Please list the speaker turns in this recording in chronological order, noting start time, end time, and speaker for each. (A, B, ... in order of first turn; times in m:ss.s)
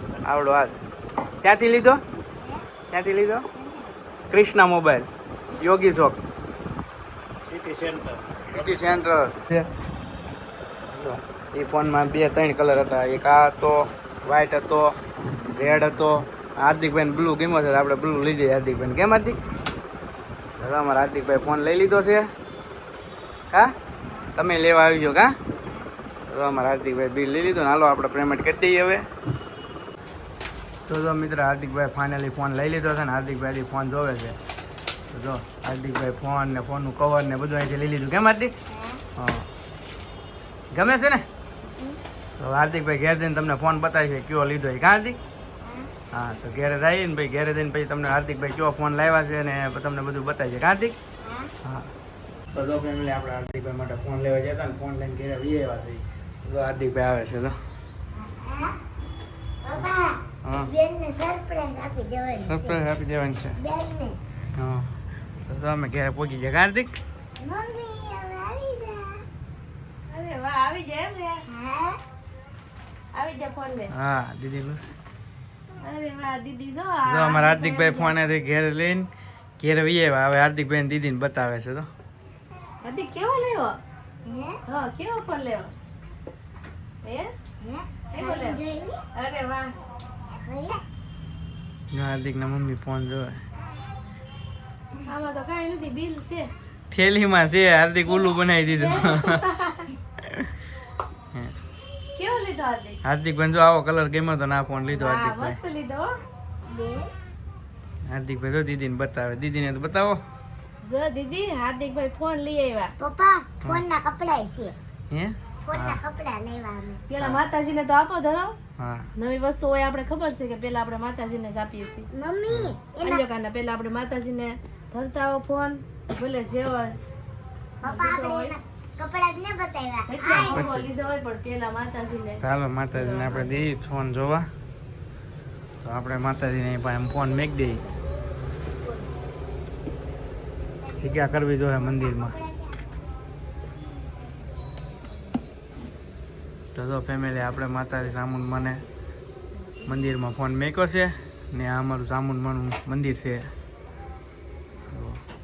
0:00.2-0:00.7 A
0:01.4-0:02.0 A
0:02.3-0:02.7 B
0:02.9-0:03.4 A
0:03.5-0:04.0 B
0:04.3-0:06.2 A
0:07.5-0:09.7 A
0:10.9-0:15.0 A
0:15.5-0:19.4 A
0:20.6-0:22.3 A
0:24.4-0:25.4 A
0:26.3-0:29.0 A
0:30.9-0:34.4 A
0:35.1-0:38.5 A
0:38.7-0:39.0 B
0:39.2-0:39.5 A
0:40.7-0:41.2 A
0:41.7-0:42.0 B
0:42.4-0:45.2 A
0:45.6-0:45.9 B
0:46.1-0:51.0 A
0:51.2-0:51.5 B
0:51.6-0:51.9 A
0:52.5-0:57.6 A
0:58.1-0:58.8 B
0:59.6-1:02.8 B
1:00.4-1:00.7 A
1:02.3-1:03.6 A
1:03.6-1:04.2 B
1:04.6-1:04.9 A
1:05.5-1:06.9 A
1:07.4-1:09.2 B
1:10.1-1:11.4 C
1:11.5-1:12.0 B
1:13.1-1:13.9 C
1:13.9-1:14.8 A
1:15.8-1:18.2 C
1:17.1-1:21.9 A
1:22.8-1:23.8 C
1:24.2-1:24.6 B
1:24.7-1:25.7 C
1:27.0-1:27.3 C
1:27.6-1:29.0 B
1:28.1-1:28.6 C
1:29.2-1:29.7 C
1:30.3-1:30.8 B
1:31.9-1:33.4 A
1:35.1-1:36.5 C
1:36.9-1:39.4 A
1:38.7-1:39.9 C
1:42.2-1:43.0 C
1:43.0-1:45.6 A
1:44.9-1:46.2 C
1:46.7-1:47.1 B
1:48.1-1:50.2 A
1:50.8-1:52.9 C
1:53.0-1:54.8 B
1:55.1-1:56.0 A
1:55.7-1:57.0 B
1:57.1-1:58.6 C
1:58.8-1:59.1 A
1:59.2-2:02.1 C
2:02.1-2:03.2 B
2:02.5-2:02.8 A
2:03.0-2:07.0 C
2:07.8-2:10.6 B
2:07.8-2:08.6 C
2:10.0-2:13.7 C
2:10.3-2:10.9 A
2:12.4-2:14.5 A
2:15.8-2:17.8 A
2:20.9-2:22.8 B
2:21.0-2:22.4 A
2:24.5-2:25.4 C
2:26.8-2:28.8 A
2:29.8-2:33.5 A
2:34.9-2:35.2 A